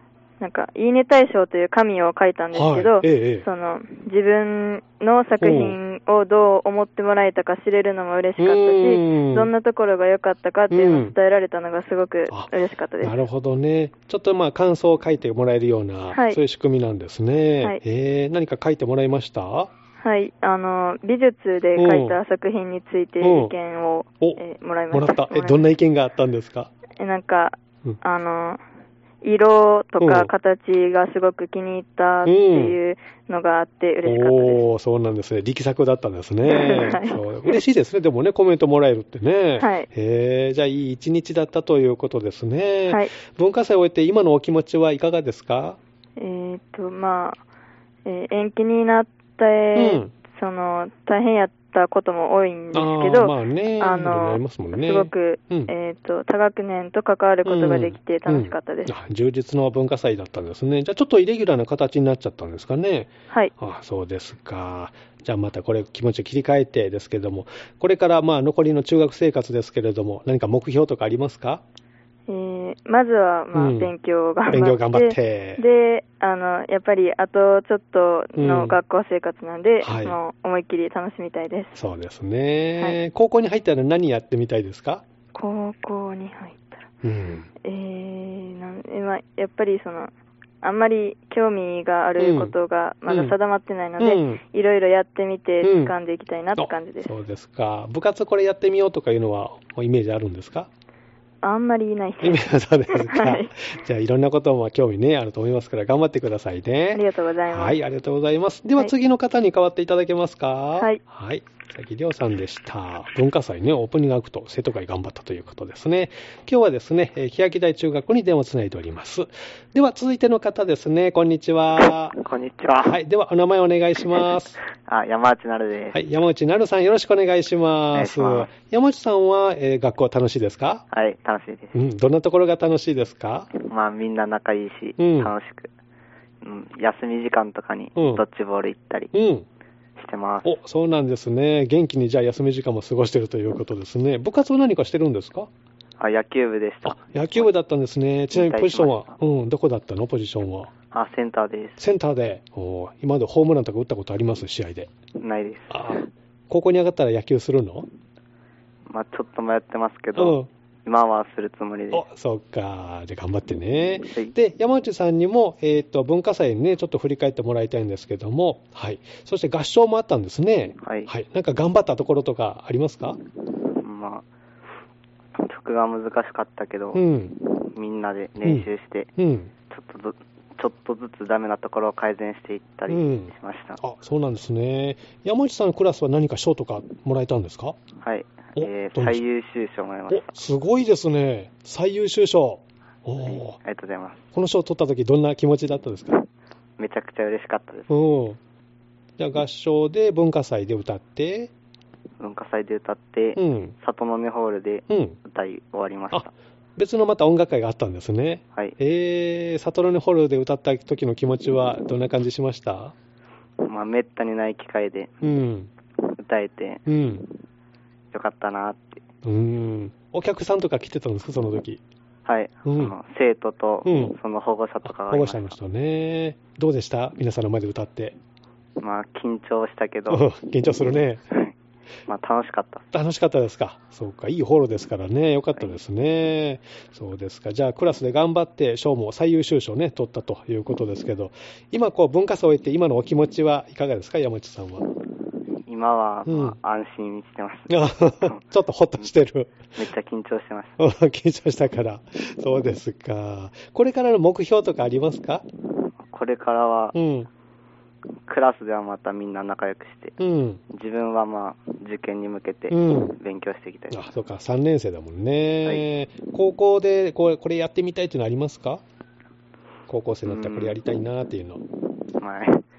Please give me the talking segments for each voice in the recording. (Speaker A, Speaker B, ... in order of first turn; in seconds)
Speaker A: 0.4-13.2, 16.1-16.4, 20.0-25.6, 26.9-28.6, 29.2-34.6, 36.4-37.5, 39.6-39.9, 42.9-43.1, 46.2-47.4, 48.0-58.9, 72.3-81.8, 85.3-86.8, 87.6-97.1, 101.4-103.5, 106.9-107.8
Speaker B: 2.5-3.5, 5.4-5.8, 8.4-9.5, 10.7-11.1, 12.3-19.7, 21.8-22.2, 23.2-23.5, 24.9-26.7, 30.0-30.3, 32.2-32.8, 34.0-45.8, 49.8-50.1, 52.7-55.7, 57.4-71.6, 73.5-73.9, 74.5-75.6, 78.3-78.8, 79.8-80.2, 81.8-85.0, 87.0-87.5, 92.2-92.5, 93.1-93.3, 94.0-94.4, 95.6-95.9, 96.6-100.7, 102.2-122.2, 122.8-124.6, 125.9-130.8, 131.7-133.5, 135.0-135.3, 137.9-138.2, 139.1-139.4, 140.4-145.5, 146.8-150.7, 151.8-154.9, 155.7-157.8, 160.2-160.5, 161.9-173.2, 176.9-177.3, 178.4-179.5, 182.9-187.8, 188.6-189.2, 190.1-193.6, 194.3-196.1, 197.9-198.4, 199.2-201.5, 203.3-203.7, 204.9-205.2, 206.1-212.9, 215.2-215.7, 216.9-217.2, 219.2-221.8, 222.6-222.9, 223.8-224.2, 224.8-228.2, 230.1-231.2, 232.9-244.8, 246.2-246.6, 247.7-249.7, 250.8-255.4, 256.9-257.3, 260.2-260.6, 262.7-263.2, 263.9-268.8, 269.9-271.6
Speaker C: 122.2-123.0, 124.2-126.0, 127.9-128.5, 130.9-131.7, 133.6-135.7, 136.4-139.1, 140.0-140.5, 146.0-147.5, 148.3-149.2, 150.9-151.8, 155.2-156.1, 158.9-162.0, 170.8-171.1, 173.8-174.2, 175.3-177.0, 177.6-179.1, 179.7-183.8, 188.0-190.3, 193.2-194.2, 196.8-197.9, 202.2-206.3, 213.6-215.4, 216.0-216.8, 218.1-219.0, 222.2-225.6, 228.8-230.2, 232.1-232.9, 245.7-248.4, 249.7-250.8, 256.0-256.9, 258.3-260.1, 260.7-264.1, 270.2-270.8, 272.2-272.6